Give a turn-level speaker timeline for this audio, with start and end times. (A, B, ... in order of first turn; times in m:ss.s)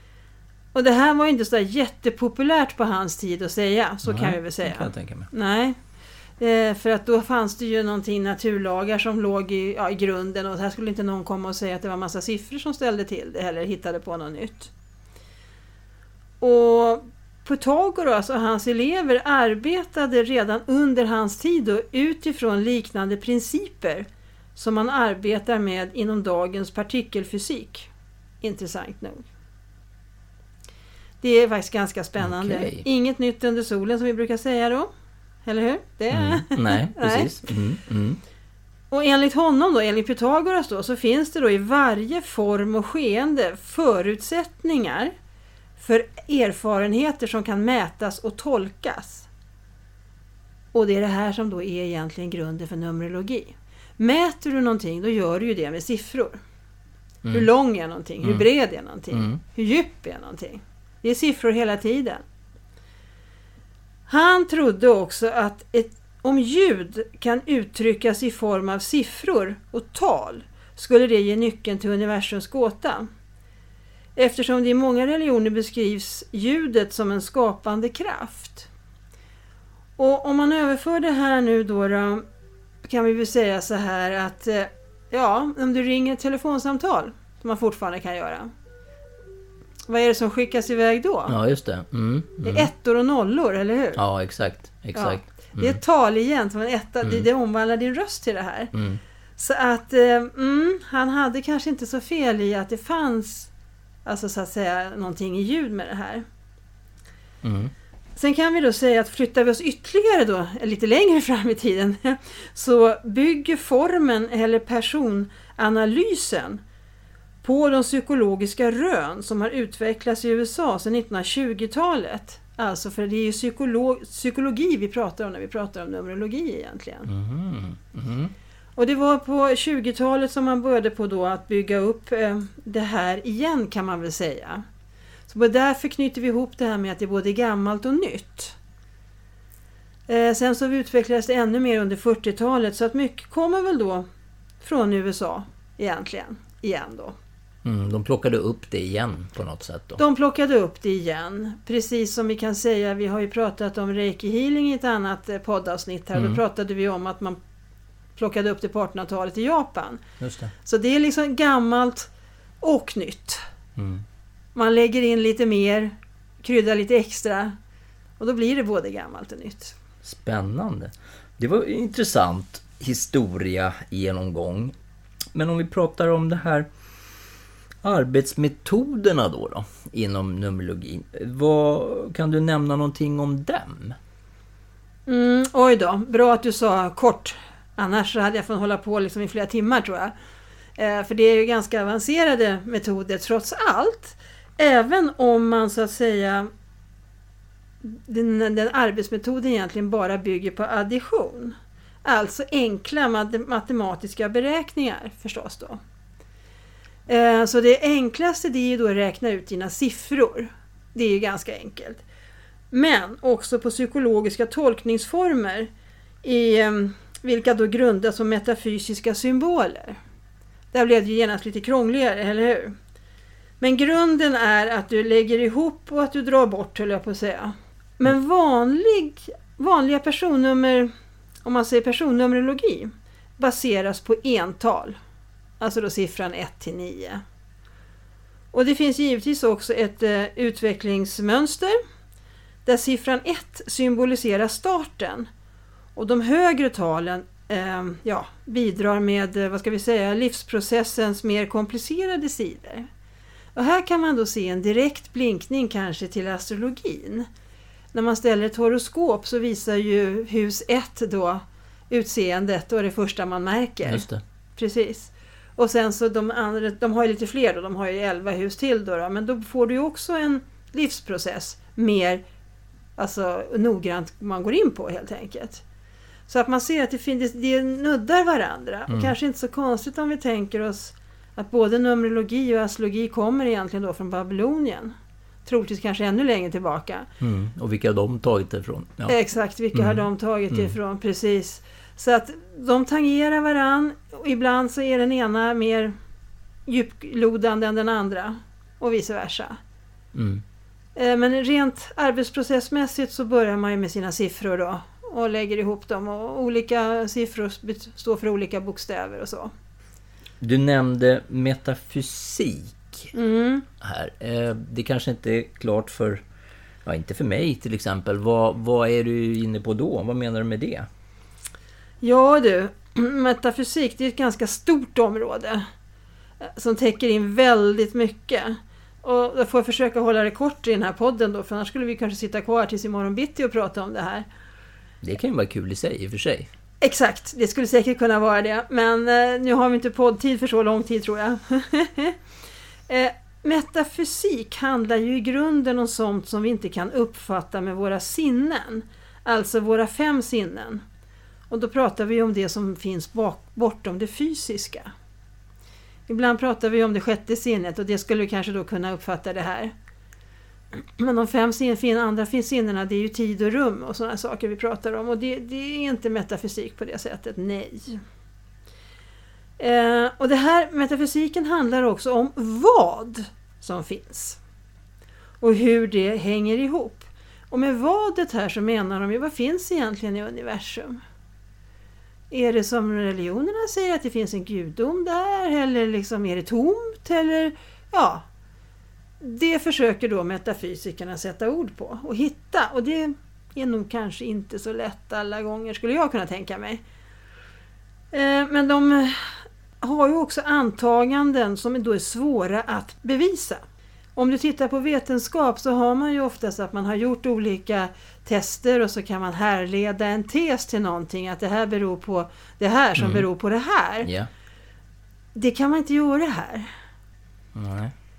0:00.7-0:05.8 A
0:04.0-0:05.3 B
0:06.4-0:14.7 A
0:16.4-0:27.9 A
0:28.4-0:29.3 A
0:31.2-0:34.9 A
0:32.2-0:32.9 B
0:35.5-0:37.5 A
0:36.1-0:38.2 B
0:38.9-0:45.1 A
0:45.8-0:49.3 A
0:50.7-0:56.4 A
0:57.3-1:02.2 A
0:59.1-0:59.4 B
1:04.1-1:13.1 A
1:14.2-1:18.7 A
1:20.0-1:22.2 A
1:22.8-1:28.5 A
1:29.9-1:31.4 A
1:31.3-1:32.7 B
1:32.4-1:34.0 A
1:34.0-1:35.8 B
1:34.9-1:38.7 A
1:38.7-1:39.0 B
1:39.4-1:43.5 A
1:44.0-1:46.2 A
1:47.4-1:47.7 B
1:48.2-1:56.6 A
1:57.4-2:07.1 A
2:07.1-2:08.3 B
2:08.8-2:14.6 A
2:15.3-2:18.6 A
2:20.1-2:24.1 A
2:24.6-2:27.2 A
2:27.6-2:30.0 B
2:30.0-2:37.4 A
2:36.1-2:36.4 B
2:38.2-2:40.0 A
2:40.2-2:40.5 B
2:40.6-2:42.1 A
2:42.6-2:43.4 A
2:43.8-2:44.0 B
2:44.6-2:47.6 A
2:48.2-2:49.8 A
2:50.0-2:54.8 B
2:55.3-2:56.7 B
2:57.8-3:04.0 B
3:05.1-3:10.1 A
3:10.8-3:16.5 A
3:17.8-3:25.8 A
3:27.1-3:32.0 A
3:32.7-3:35.7 A
3:36.2-3:40.0 A
3:40.7-3:42.8 A
3:43.6-3:50.9 A
3:51.4-3:55.0 A
3:55.6-3:57.2 A
3:58.5-4:01.8 A
4:02.7-4:05.3 A
4:06.0-4:12.9 A
4:13.6-4:17.3 A
4:17.9-4:32.2 A
4:23.8-4:24.2 B
4:33.0-4:35.6 A
4:36.3-4:47.1 A
4:38.9-4:39.1 B
4:47.2-4:49.2 B
4:49.1-4:56.0 A
4:49.7-4:50.7 B
4:56.7-4:59.6 A
5:00.1-5:00.4 B
5:01.0-5:09.5 A
5:10.4-5:13.1 B
5:13.2-5:13.7 A
5:13.8-5:16.2 B
5:16.8-5:20.9 B
5:22.0-5:25.7 A
5:26.4-5:34.3 A
5:35.0-5:36.5 B
5:36.8-5:42.2 A
5:42.9-5:50.8 A
5:51.5-5:54.9 A
5:56.1-5:59.7 A
6:00.7-6:08.0 A
6:09.6-6:14.4 A
6:15.4-6:21.0 A
6:22.3-6:28.2 A
6:29.2-6:36.8 A
6:38.1-6:43.6 A
6:44.2-6:54.1 A
6:53.0-6:53.3 B
6:55.3-6:56.7 A
6:57.5-6:57.9 B